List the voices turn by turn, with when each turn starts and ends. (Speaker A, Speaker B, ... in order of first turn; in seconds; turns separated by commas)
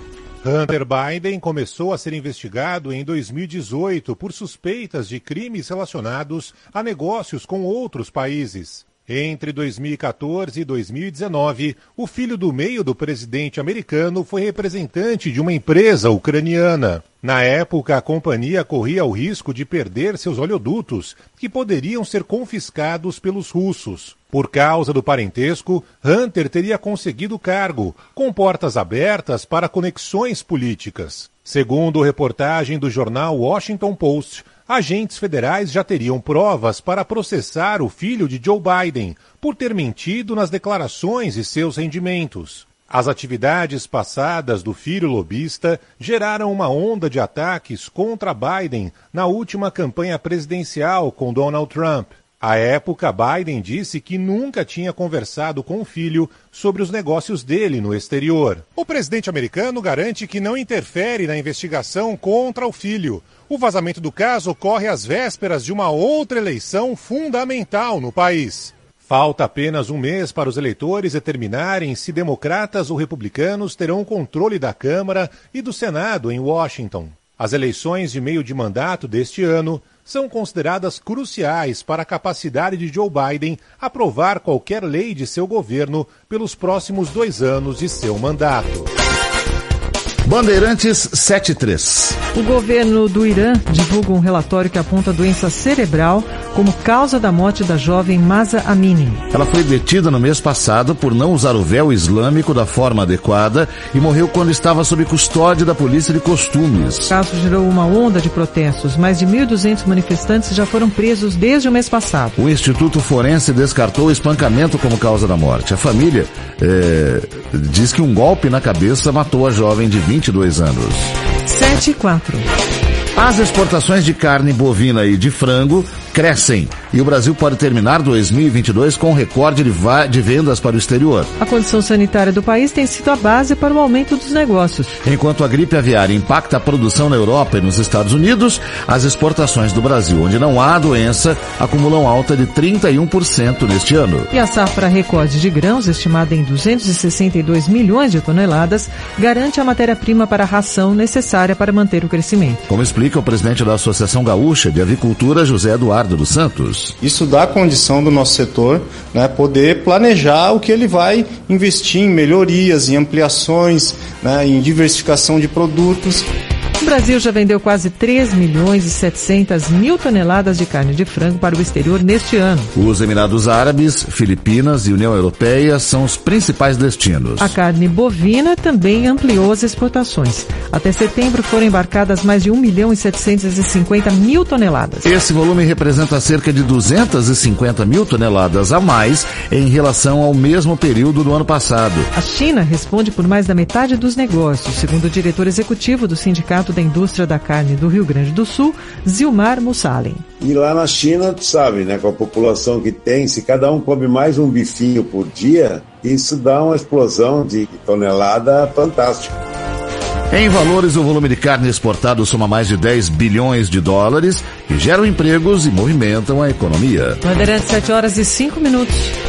Speaker A: 0.4-88.9, Speaker B: 90.2-92.2, Speaker C: 92.3-99.2, Speaker B: 99.3-107.1, Speaker C: 107.1-112.3, Speaker B: 112.4-121.2, Speaker C: 121.5-122.5, Speaker B: 123.2-131.3, Speaker C: 131.4-135.0, Speaker B: 135.0-144.3, Speaker C: 144.3-152.6, Speaker B: 152.7-157.0, Speaker D: 157.0-166.3, Speaker C: 166.8-172.7, Speaker B: 172.8-177.6, Speaker C: 177.4-185.1, Speaker B: 185.0-192.1, Speaker C: 192.1-200.2, Speaker E: 200.4-209.3, Speaker B: 210.3-217.2, Speaker C: 217.2-219.1